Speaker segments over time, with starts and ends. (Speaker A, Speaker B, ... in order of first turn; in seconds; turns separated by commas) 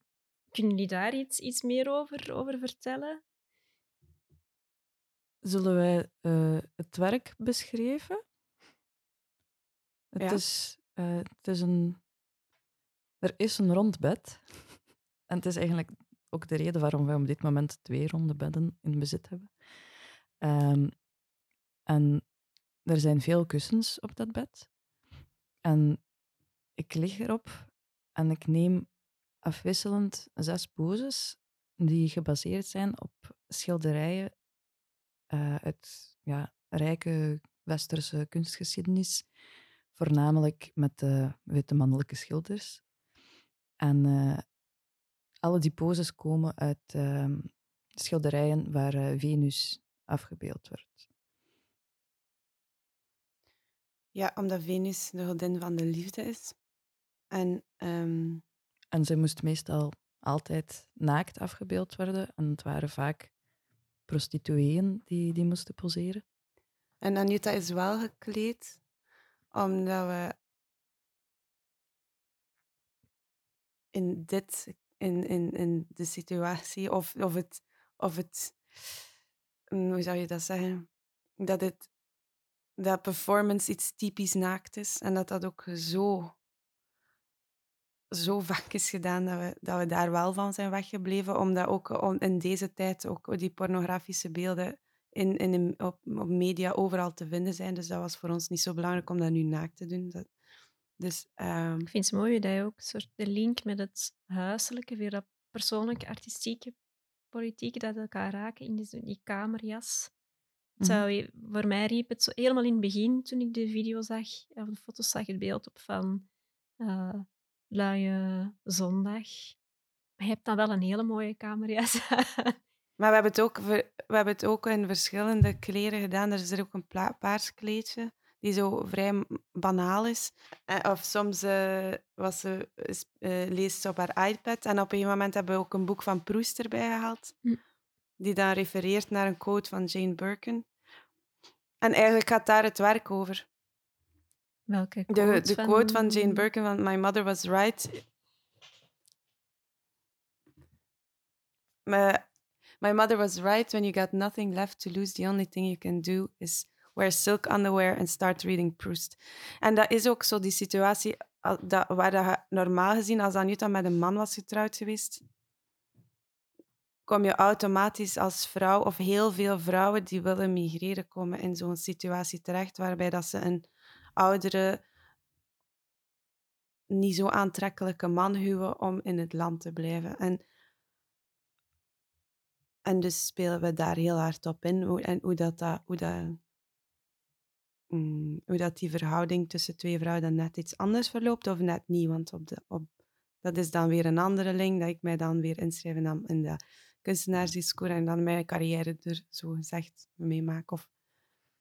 Speaker A: 0.5-3.2, Speaker B: 5.4-8.2, Speaker B: 10.1-12.0, Speaker B: 13.2-19.6, Speaker B: 20.4-21.1, Speaker B: 21.9-22.3, Speaker B: 22.8-24.7, Speaker B: 25.6-26.0, Speaker B: 26.8-28.9, Speaker B: 29.4-34.4, Speaker B: 35.3-39.3, Speaker B: 39.9-42.8, Speaker B: 43.8-44.5, Speaker B: 45.4-51.0, Speaker C: 54.1-56.6, Speaker C: 57.3-58.4, Speaker B: 58.9-63.3, Speaker B: 64.1-66.2, Speaker C: 67.0-68.8, Speaker C: 69.5-70.4, Speaker C: 73.9-78.6, Speaker C: 79.7-80.9, Speaker C: 81.4-81.9, Speaker C: 82.8-86.4, Speaker C: 88.1-100.3, Speaker C: 101.0-101.9, Speaker A: 101.9-106.8, Speaker A: 107.3-110.1, Speaker B: 110.8-111.0, Speaker A: 110.8-116.3, Speaker A: 116.8-119.6, Speaker A: 120.2-122.6, Speaker C: 123.0-137.4, Speaker C: 138.2-140.7, Speaker C: 141.8-143.5, Speaker A: 144.7-146.5, Speaker C: 145.1-148.0, Speaker C: 151.9-152.2, Speaker C: 152.8-165.2, Speaker C: 167.1-174.8, Speaker C: 176.9-180.4, Speaker C: 182.8-186.4, Speaker C: 187.9-192.9, Speaker C: 193.4-200.9